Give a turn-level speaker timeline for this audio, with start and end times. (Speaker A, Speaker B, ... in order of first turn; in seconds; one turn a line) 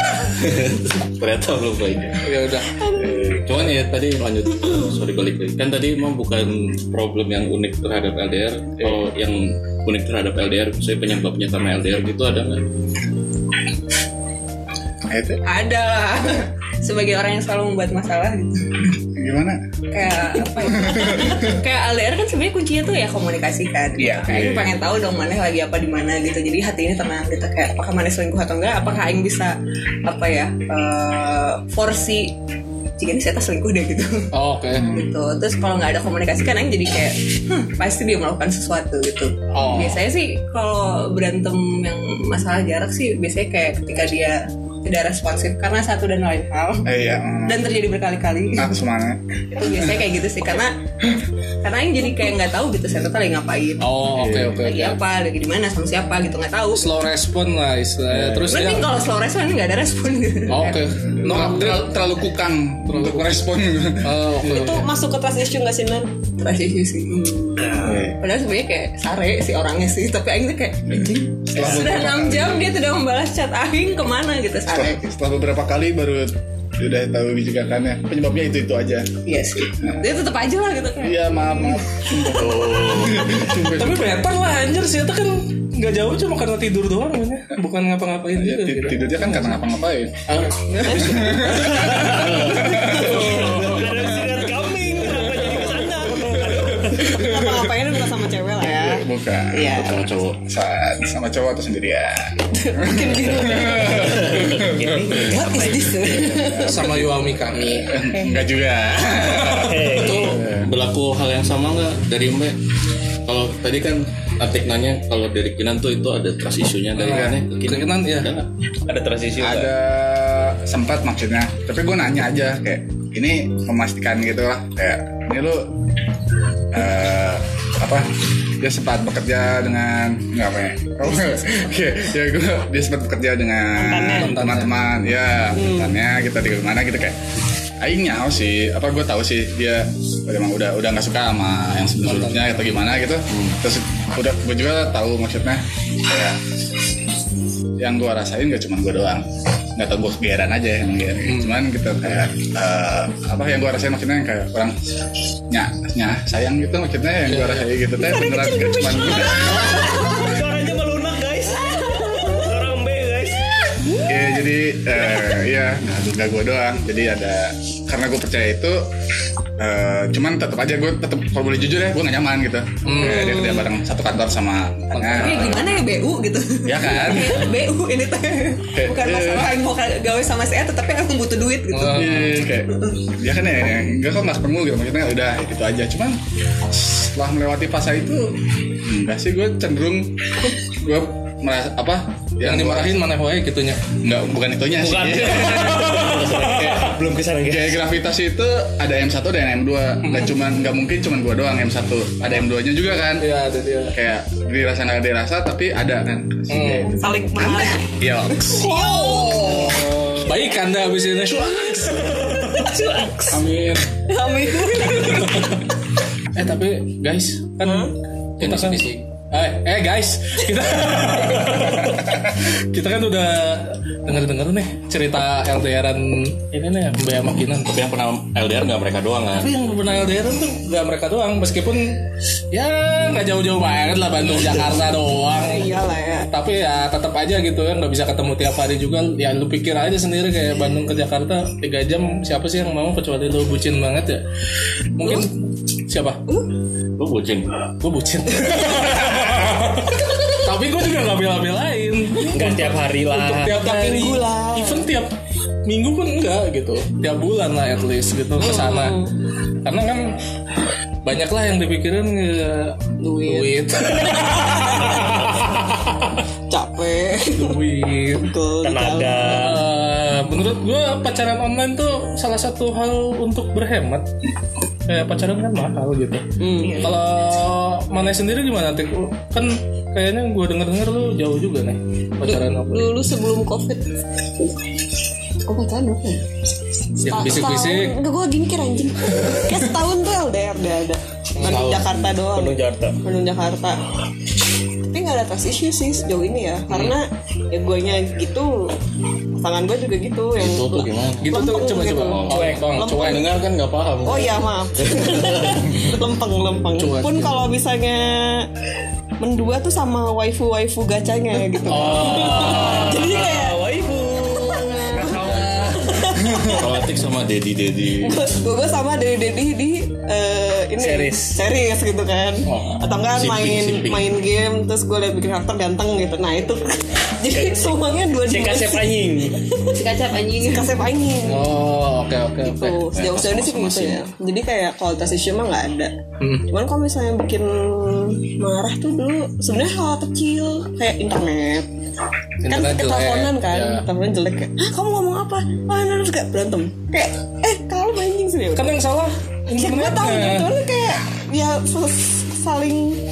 Speaker A: 0.3-2.4
Speaker B: 2.2-2.9
Speaker A: 3.0-12.7
Speaker C: 15.1-15.4
Speaker D: 15.5-18.9
Speaker C: 19.1-19.6
Speaker D: 19.9-32.4
Speaker C: 20.6-21.5
Speaker C: 24.0-24.7
Speaker D: 33.0-34.3
Speaker B: 34.3-34.9
Speaker C: 34.7-35.1
Speaker D: 34.8-46.9
Speaker B: 39.5-40.0
Speaker C: 39.6-40.0
Speaker C: 46.9-47.7
Speaker D: 47.5-48.8
Speaker C: 48.6-49.9
Speaker D: 49.5-50.8
Speaker D: 51.6-54.0
Speaker B: 53.8-55.0
Speaker C: 54.1-54.6
Speaker D: 54.6-56.9
Speaker B: 56.7-58.9
Speaker C: 58.1-58.5
Speaker D: 58.5-61.0
Speaker B: 60.5-61.9
Speaker C: 61.2-64.2
Speaker B: 62.9-63.4
Speaker B: 64.0-64.9
Speaker E: 64.4-66.1
Speaker D: 66.4-75.0
Speaker C: 67.8-68.2
Speaker C: 71.5-72.8
Speaker C: 74.7-79.1
Speaker D: 79.2-82.3
Speaker C: 81.0-84.2
Speaker A: 82.3-83.3
Speaker B: 83.7-89.6
Speaker C: 88.3-90.2
Speaker B: 90.3-94.0
Speaker C: 90.9-93.6
Speaker F: 91.9-92.3
Speaker E: 92.9-93.3
Speaker F: 92.9-97.1
Speaker E: 95.1-100.0
Speaker C: 97.1-97.7
Speaker C: 98.6-99.8
Speaker A: 99.7-100.4
Speaker C: 100.4-105.2
Speaker E: 102.6-104.3
Speaker F: 104.0-105.5
Speaker E: 105.2-106.8
Speaker C: 106.3-107.1
Speaker B: 106.6-107.9
Speaker C: 107.7-110.7
Speaker B: 109.4-109.7
Speaker F: 109.5-110.4
Speaker A: 110.0-112.6
Speaker A: 113.3-118.5
Speaker B: 117.0-118.3
Speaker C: 117.1-117.4
Speaker F: 118.9-119.7
Speaker C: 119.4-125.7
Speaker C: 126.7-128.1
Speaker C: 128.6-137.2
Speaker E: 133.8-134.4
Speaker B: 134.2-134.8
Speaker E: 135.6-135.9
Speaker C: 137.8-146.4
Speaker B: 142.0-142.8
Speaker A: 143.3-143.6
Speaker C: 147.8-154.9
Speaker B: 151.2-151.6
Speaker C: 155.5-160.0
Speaker B: 157.3-157.7
Speaker E: 158.0-160.3
Speaker F: 159.6-163.5
Speaker E: 161.6-162.5
Speaker C: 164.1-168.9
Speaker C: 169.6-175.8
Speaker B: 172.8-173.5
Speaker E: 173.0-173.7
Speaker B: 174.9-175.6
Speaker D: 175.1-182.9
Speaker C: 176.7-177.5
Speaker C: 178.7-179.6
Speaker B: 181.7-182.4
Speaker C: 181.9-193.0
Speaker B: 192.4-193.8
Speaker C: 194.0-196.8
Speaker F: 194.8-197.8
Speaker C: 197.4-203.3
Speaker B: 200.0-200.3
Speaker B: 203.2-203.9
Speaker C: 203.9-207.0
Speaker B: 206.5-206.9
Speaker E: 207.0-209.9
Speaker C: 208.0-210.1
Speaker B: 209.0-212.7
Speaker E: 212.2-213.1
Speaker C: 213.3-213.9
Speaker E: 214.1-215.6
Speaker B: 215.0-215.5
Speaker B: 216.3-227.7
Speaker E: 217.6-217.9
Speaker A: 218.4-219.0
Speaker A: 227.7-229.5
Speaker B: 229.4-232.0
Speaker B: 232.5-235.7
Speaker E: 235.4-236.3
Speaker B: 236.3-244.2
Speaker B: 245.0-245.3
Speaker B: 245.9-246.2
Speaker A: 247.0-247.5
Speaker B: 247.8-255.1
Speaker F: 252.3-253.6
Speaker E: 253.5-254.9
Speaker B: 255.7-259.0
Speaker E: 258.4-259.1
Speaker B: 259.6-260.1
Speaker B: 261.0-266.1
Speaker E: 263.0-265.5
Speaker E: 266.5-267.6
Speaker B: 267.3-268.3
Speaker E: 268.1-269.4
Speaker F: 268.6-269.6
Speaker B: 269.2-274.1
Speaker B: 274.9-276.2
Speaker E: 276.4-276.9
Speaker B: 276.8-283.0
Speaker E: 282.2-284.0
Speaker E: 285.4-286.3
Speaker B: 287.0-288.0
Speaker E: 287.1-293.8
Speaker B: 289.2-289.6
Speaker B: 291.4-291.8
Speaker A: 291.5-292.0
Speaker F: 292.3-293.0
Speaker E: 294.8-298.8
Speaker B: 296.7-297.0
Speaker E: 299.4-303.2
Speaker A: 300.4-301.4
Speaker B: 301.2-303.3
Speaker A: 302.1-305.6
Speaker F: 302.3-302.6
Speaker E: 304.1-308.5
Speaker B: 306.8-307.5
Speaker E: 309.2-315.2
Speaker B: 311.6-312.9
Speaker F: 312.0-315.4
Speaker A: 315.0-315.9
Speaker E: 315.8-316.6
Speaker C: 316.2-316.6
Speaker A: 316.5-318.2
Speaker E: 318.0-329.8
Speaker F: 320.8-321.4
Speaker B: 322.5-322.9
Speaker A: 323.1-324.1
Speaker F: 327.4-329.4
Speaker D: 329.7-330.8
Speaker E: 330.4-331.5
Speaker B: 331.3-332.9
Speaker E: 332.4-335.9
Speaker A: 332.9-334.1
Speaker B: 336.2-336.5
Speaker E: 336.5-341.7
Speaker B: 342.4-343.9
Speaker E: 342.5-348.8
Speaker B: 348.6-350.5
Speaker E: 349.6-353.0